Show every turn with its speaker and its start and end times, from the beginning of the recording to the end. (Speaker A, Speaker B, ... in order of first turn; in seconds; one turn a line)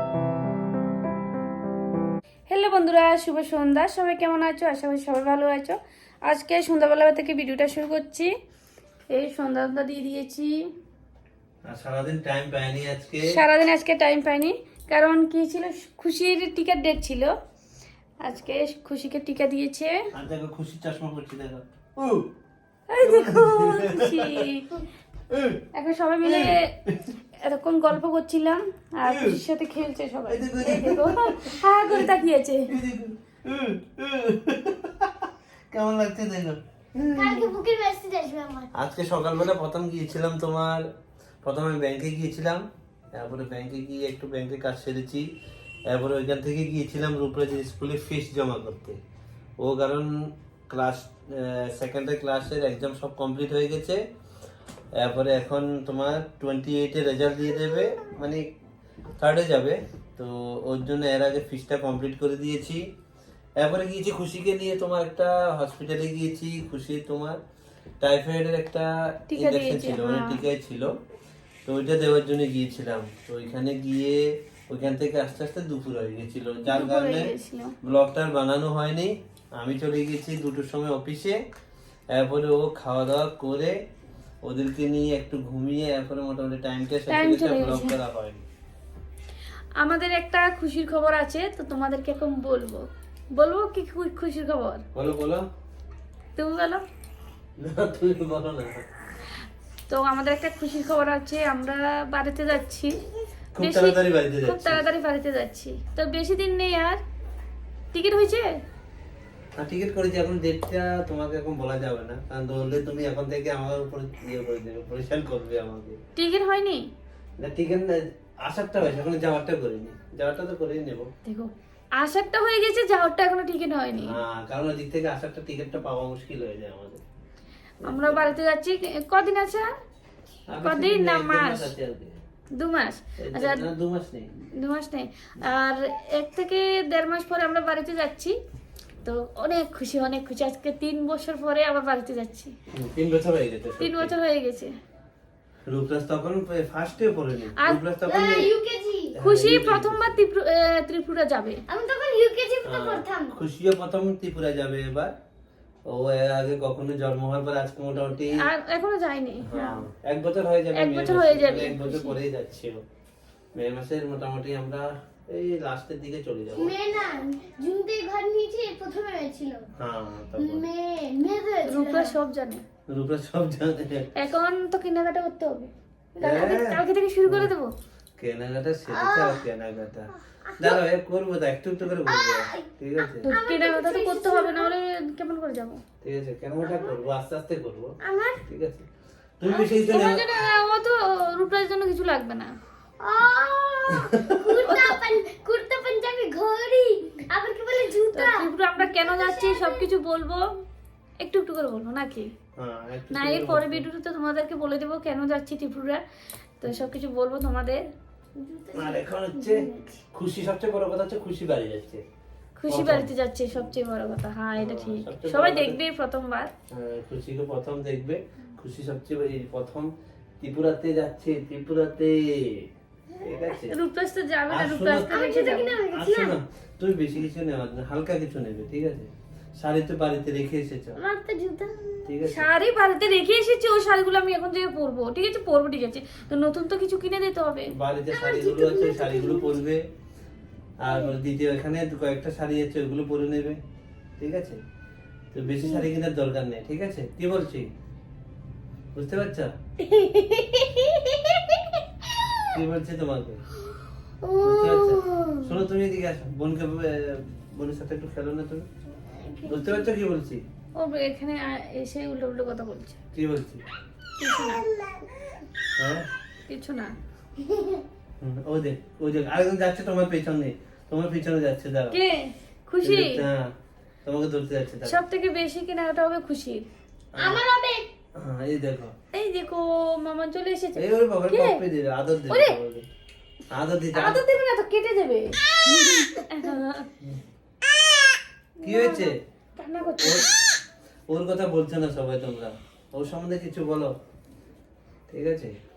Speaker A: 2.5-8.3
Speaker A: 9.1-10.6
Speaker B: 11.7-13.4
Speaker A: 13.3-17.3
Speaker A: 18.2-20.1
Speaker B: 20.1-22.3
Speaker A: 22.9-24.8
Speaker B: 23.0-24.4
Speaker B: 25.3-25.6
Speaker A: 25.7-26.7
Speaker B: 26.2-27.1
Speaker A: 27.4-32.7
Speaker B: 29.0-29.4
Speaker B: 30.3-32.2
Speaker B: 32.7-37.5
Speaker C: 37.1-38.7
Speaker B: 38.7-40.9
Speaker B: 41.4-45.3
Speaker B: 45.9-49.0
Speaker B: 49.6-54.0
Speaker B: 54.9-58.5
Speaker B: 59.2-62.9
Speaker B: 63.6-67.4
Speaker B: 68.0-70.9
Speaker A: 69.3-70.4
Speaker B: 71.6-81.4
Speaker A: 76.6-77.7
Speaker B: 82.1-83.8
Speaker B: 84.4-88.4
Speaker A: 87.1-88.0
Speaker A: 89.8-92.8
Speaker A: 93.3-94.8
Speaker B: 94.9-95.4
Speaker A: 96.3-96.8
Speaker B: 97.6-98.8
Speaker A: 99.9-103.0
Speaker B: 103.5-104.8
Speaker A: 103.6-107.0
Speaker A: 107.9-108.5
Speaker B: 109.6-116.0
Speaker A: 116.2-116.9
Speaker B: 117.4-121.1
Speaker A: 121.2-124.2
Speaker B: 124.0-127.0
Speaker A: 127.8-129.7
Speaker B: 127.8-128.3
Speaker B: 130.5-132.2
Speaker A: 130.6-131.7
Speaker A: 132.5-133.7
Speaker B: 133.2-134.3
Speaker A: 134.6-138.4
Speaker A: 139.0-142.5
Speaker B: 142.7-144.1
Speaker A: 143.8-144.7
Speaker B: 145.7-148.5
Speaker A: 147.6-147.8
Speaker C: 148.1-149.1
Speaker B: 149.1-150.2
Speaker A: 149.2-151.6
Speaker C: 151.7-153.3
Speaker B: 152.6-155.1
Speaker B: 155.9-158.5
Speaker A: 158.4-159.8
Speaker B: 159.4-162.8
Speaker A: 160.7-162.2
Speaker B: 163.6-166.7
Speaker C: 166.5-169.7
Speaker B: 169.8-170.7
Speaker C: 170.3-172.2
Speaker A: 171.7-172.6
Speaker B: 172.9-174.1
Speaker A: 174.2-177.7
Speaker B: 176.2-177.5
Speaker B: 178.2-183.3
Speaker C: 178.9-179.4
Speaker C: 180.4-180.8
Speaker C: 182.0-182.7
Speaker A: 183.2-185.8
Speaker C: 183.2-184.7
Speaker B: 186.0-188.9
Speaker C: 186.6-186.9
Speaker C: 188.0-188.4
Speaker B: 189.4-190.3
Speaker A: 189.5-192.5
Speaker C: 193.0-199.9
Speaker B: 194.1-194.5
Speaker A: 194.6-195.1
Speaker A: 198.1-200.5
Speaker A: 201.2-202.3
Speaker B: 202.6-203.9
Speaker A: 203.1-206.0
Speaker A: 206.6-207.8
Speaker C: 208.4-210.0
Speaker B: 208.7-212.0
Speaker A: 212.6-216.5
Speaker B: 212.7-213.1
Speaker B: 214.6-215.8
Speaker B: 216.7-219.9
Speaker B: 220.4-222.7
Speaker B: 223.2-223.8
Speaker A: 223.5-225.8
Speaker B: 224.5-225.2
Speaker C: 225.1-226.3
Speaker B: 225.9-231.0
Speaker C: 231.0-232.1
Speaker B: 232.1-232.5
Speaker A: 232.2-237.7
Speaker B: 237.7-239.9
Speaker C: 238.1-239.6
Speaker B: 240.8-243.6
Speaker B: 244.2-244.6
Speaker B: 245.3-247.7
Speaker C: 245.6-245.8
Speaker B: 248.9-249.5
Speaker C: 249.8-252.4
Speaker B: 252.5-253.4
Speaker C: 254.2-255.6
Speaker B: 254.4-258.7
Speaker C: 259.0-259.9
Speaker B: 259.5-260.4
Speaker A: 260.8-263.0
Speaker B: 263.1-263.6
Speaker A: 264.2-264.6
Speaker C: 264.8-265.1
Speaker B: 265.8-266.1
Speaker A: 266.5-266.9
Speaker C: 267.4-267.8
Speaker B: 268.2-272.0
Speaker A: 271.9-273.2
Speaker B: 272.8-273.5
Speaker B: 274.0-275.0
Speaker A: 274.8-276.6
Speaker B: 277.1-277.4
Speaker C: 277.2-277.9
Speaker B: 278.1-278.9
Speaker A: 279.1-281.6
Speaker B: 280.8-282.9
Speaker A: 282.3-282.6
Speaker B: 283.5-284.2
Speaker A: 283.9-286.9
Speaker A: 288.6-290.3
Speaker B: 288.6-289.2
Speaker B: 290.0-290.3
Speaker B: 291.1-293.9
Speaker B: 295.1-295.5